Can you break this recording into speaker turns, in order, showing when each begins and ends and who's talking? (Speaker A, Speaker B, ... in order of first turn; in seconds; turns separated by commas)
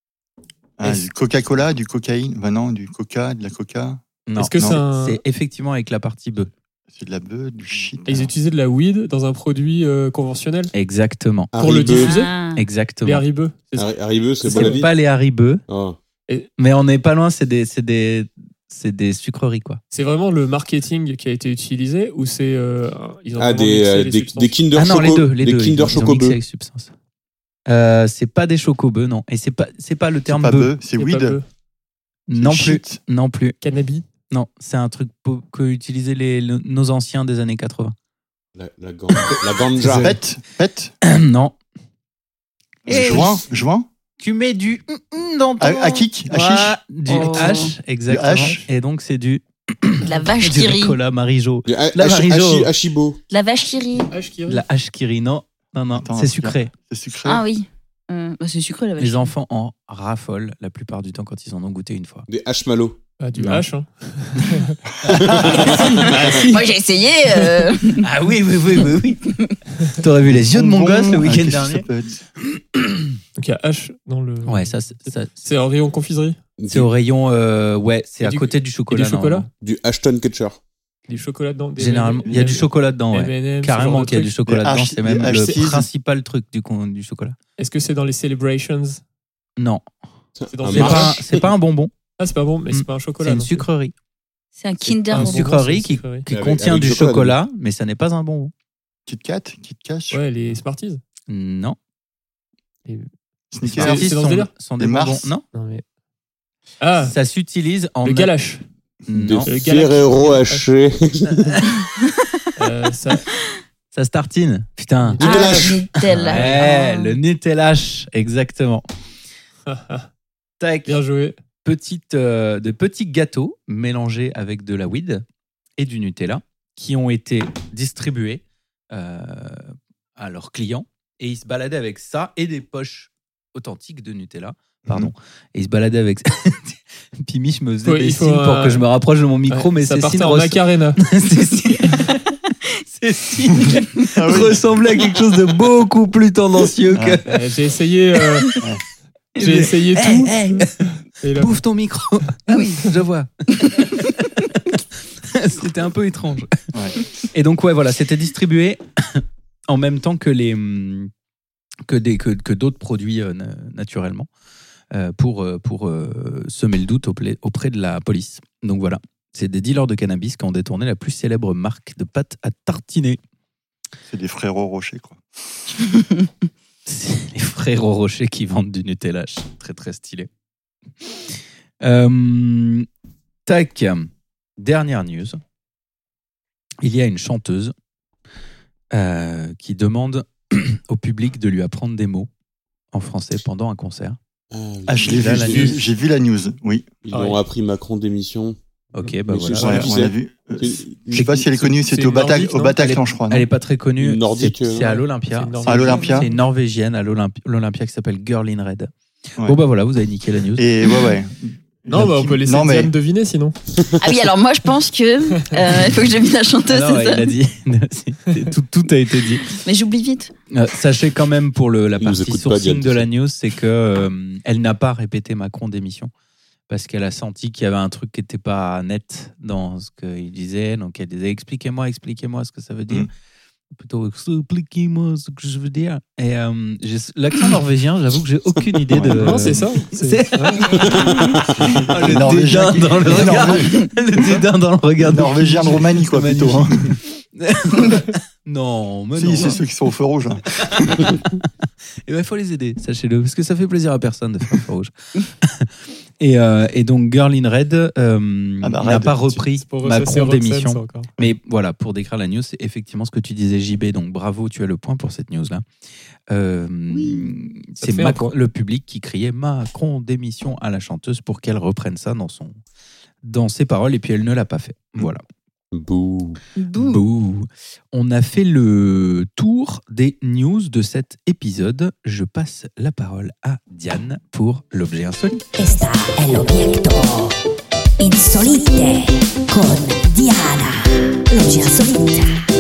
Speaker A: 0.8-4.0, Speaker B: 4.3-6.5, Speaker C: 4.4-5.2, Speaker A: 6.9-8.3, Speaker C: 8.1-10.7, Speaker B: 10.7-11.5, Speaker D: 11.5-12.2, Speaker C: 11.6-12.3, Speaker E: 11.9-12.6, Speaker B: 12.6-13.2, Speaker C: 13.0-13.9, Speaker D: 13.8-15.0, Speaker B: 14.4-15.6, Speaker C: 14.5-14.8, Speaker D: 15.7-16.0, Speaker B: 16.6-19.8, Speaker C: 19.9-24.6, Speaker D: 23.4-26.4, Speaker B: 24.7-26.9, Speaker B: 27.7-30.7, Speaker A: 30.3-31.4, Speaker C: 31.0-31.4, Speaker B: 32.3-33.6, Speaker A: 32.4-33.0, Speaker C: 33.6-34.0, Speaker B: 34.3-38.0, Speaker D: 38.6-40.2, Speaker A: 39.8-40.9, Speaker B: 41.0-41.5, Speaker B: 42.9-43.4, Speaker A: 42.9-43.9, Speaker B: 44.2-52.7, Speaker A: 45.6-46.8, Speaker E: 47.1-47.8, Speaker A: 48.1-48.7, Speaker E: 50.0-51.0, Speaker D: 51.7-53.2, Speaker E: 53.3-54.1, Speaker C: 54.1-54.6, Speaker B: 54.5-56.7, Speaker A: 56.0-57.4, Speaker E: 57.2-59.3, Speaker B: 59.0-62.3, Speaker D: 62.3-63.0, Speaker C: 63.2-64.8, Speaker B: 63.4-63.6, Speaker A: 65.1-65.7, Speaker D: 65.1-66.2, Speaker C: 65.6-66.7, Speaker E: 66.4-68.1, Speaker B: 68.0-71.8, Speaker A: 70.3-72.2, Speaker B: 72.5-73.1, Speaker C: 73.4-76.4, Speaker B: 74.5-75.3, Speaker D: 76.6-76.9, Speaker B: 76.7-79.5, Speaker C: 78.2-79.5, Speaker D: 79.6-80.6, Speaker C: 81.1-84.3, Speaker B: 81.8-87.4, Speaker A: 84.5-85.9, Speaker C: 87.6-89.0, Speaker B: 89.6-89.8, Speaker D: 90.4-91.5, Speaker C: 90.5-91.2, Speaker B: 90.7-91.9, Speaker C: 92.2-93.7, Speaker B: 92.7-93.9, Speaker E: 94.6-95.4, Speaker B: 94.9-98.5, Speaker C: 95.1-96.3, Speaker D: 96.3-97.4, Speaker A: 99.1-100.2, Speaker C: 100.1-101.0, Speaker B: 101.3-101.8, Speaker A: 103.5-104.1, Speaker B: 103.6-105.4, Speaker C: 103.8-104.5, Speaker A: 104.8-105.3, Speaker C: 105.5-105.8, Speaker C: 106.8-107.2, Speaker B: 107.0-108.3, Speaker C: 108.0-108.6, Speaker B: 109.1-109.5, Speaker D: 109.2-111.7, Speaker C: 109.5-110.7, Speaker C: 112.6-113.3, Speaker B: 113.9-118.9, Speaker C: 115.0-115.8, Speaker E: 115.2-117.2, Speaker D: 115.3-115.7, Speaker C: 116.3-116.7, Speaker C: 119.7-120.1, Speaker B: 120.6-121.0, Speaker C: 120.9-121.4, Speaker B: 121.7-125.2, Speaker B: 125.8-142.2, Speaker A: 134.8-135.1, Speaker C: 137.8-138.9, Speaker C: 139.5-141.0, Speaker B: 142.9-147.3, Speaker A: 144.1-144.6, Speaker A: 146.9-147.2, Speaker C: 147.3-148.5, Speaker B: 149.4-156.6, Speaker C: 149.4-150.4, Speaker C: 151.2-151.6, Speaker E: 152.5-152.8, Speaker B: 157.3-161.1, Speaker B: 161.9-164.3, Speaker B: 164.9-173.2, Speaker A: 174.1-175.2, Speaker B: 176.9-180.3, Speaker B: 181.8-182.9, Speaker B: 183.5-185.4, Speaker B: 186.8-187.7, Speaker B: 188.9-192.3, Speaker B: 192.9-194.2, Speaker D: 194.5-195.8, Speaker A: 194.9-196.9, Speaker B: 195.1-195.8, Speaker D: 197.1-198.6, Speaker C: 197.1-197.4, Speaker B: 198.9-199.9, Speaker D: 199.3-201.7, Speaker A: 199.6-203.5, Speaker C: 201.8-202.8, Speaker B: 202.8-208.9, Speaker D: 204.0-205.0, Speaker C: 205.2-206.3, Speaker A: 205.6-206.3, Speaker B: 209.4-210.7, Speaker A: 210.6-212.9, Speaker C: 211.9-213.6, Speaker D: 213.8-214.0, Speaker E: 214.0-217.3, Speaker B: 216.7-219.5, Speaker E: 219.5-220.3, Speaker B: 220.5-226.1, Speaker D: 222.0-223.1, Speaker B: 226.7-233.1, Speaker B: 233.7-241.0, Speaker A: 238.9-239.5, Speaker C: 239.2-240.7, Speaker D: 240.8-241.7, Speaker B: 241.8-249.6, Speaker A: 242.0-244.4, Speaker A: 245.0-247.0, Speaker A: 249.2-250.5, Speaker B: 250.6-251.4, Speaker B: 252.1-254.9, Speaker B: 255.4-265.6, Speaker A: 258.6-259.4, Speaker C: 259.6-261.1, Speaker B: 266.3-272.6, Speaker C: 267.8-268.4, Speaker B: 273.2-275.2, Speaker D: 275.7-276.4, Speaker E: 276.6-277.1, Speaker B: 276.7-285.4, Speaker F: 285.6-287.4, Speaker F: 288.0-292.3